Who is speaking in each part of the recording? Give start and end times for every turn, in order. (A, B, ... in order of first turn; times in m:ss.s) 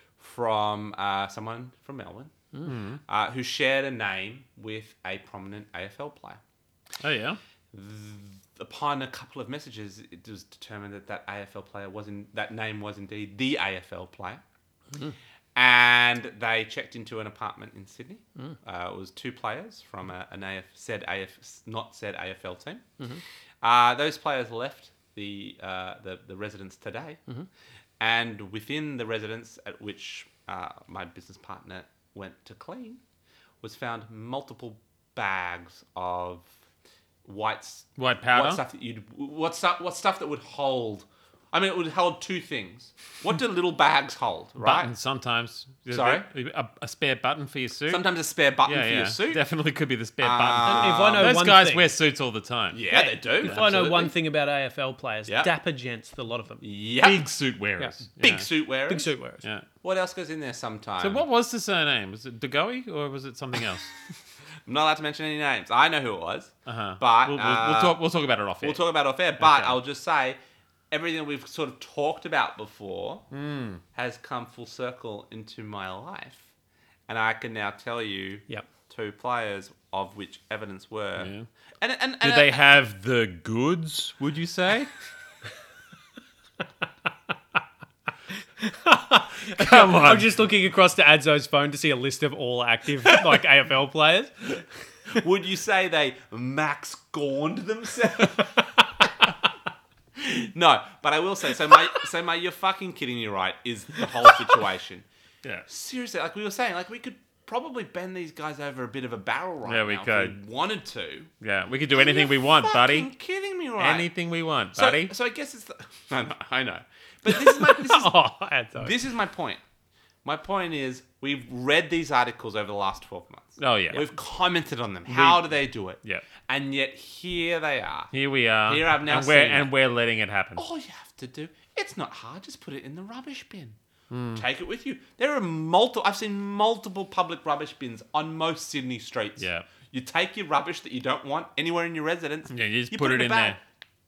0:00.2-0:02.3 A
0:02.6-0:03.0 B
0:03.1-0:06.4 A
0:07.0-0:07.4 B
0:07.7-0:14.4 A
0:15.5-0:22.8 A
0:23.6-0:27.2 A
0:28.0-0:33.0 A
0:33.6-0:36.5 A
0:37.2-0:44.9 A
0:38.0-0:38.6 B
0:44.6-0:48.0 B
0:45.9-0:46.2 A
0:47.9-0:49.4 A
0:48.6-0:52.8 B
0:50.2-0:51.3 A
0:50.6-0:51.9 C
0:52.7-0:54.1 A
0:52.9-0:56.6 C
0:56.6-0:57.3 A
0:57.0-0:58.5 B
0:58.2-0:59.1 A
0:58.9-0:59.4 C
0:59.8-1:01.2 A
1:01.0-1:03.9 B
1:04.6-1:08.0 A
1:06.6-1:08.8 B
1:08.6-1:10.4 A
1:09.4-1:09.8 B
1:10.9-1:13.2 A
1:13.3-1:13.8 B
1:13.9-1:16.5 A
1:17.1-1:22.6 A
1:21.2-1:21.5 B
1:22.2-1:24.9 B
1:28.6-1:34.5 C
1:29.6-1:30.3 B
1:35.1-1:38.5 A
1:40.2-1:45.0 A
1:45.7-1:51.3 A
1:49.6-1:50.4 B
1:51.4-1:53.1 B
1:51.9-1:54.1 A
1:53.8-1:55.1 B
1:54.8-1:58.1 A
1:57.2-1:58.9 C
1:58.8-1:59.6 A
2:00.2-2:08.1 A
2:03.6-2:04.0 B
2:05.1-2:05.4 B
2:08.1-2:10.6 B
2:08.6-2:09.7 A
2:10.6-2:13.8 A
2:14.1-2:14.4 B
2:14.3-2:23.6 A
2:19.4-2:19.6 B
2:22.5-2:23.6 B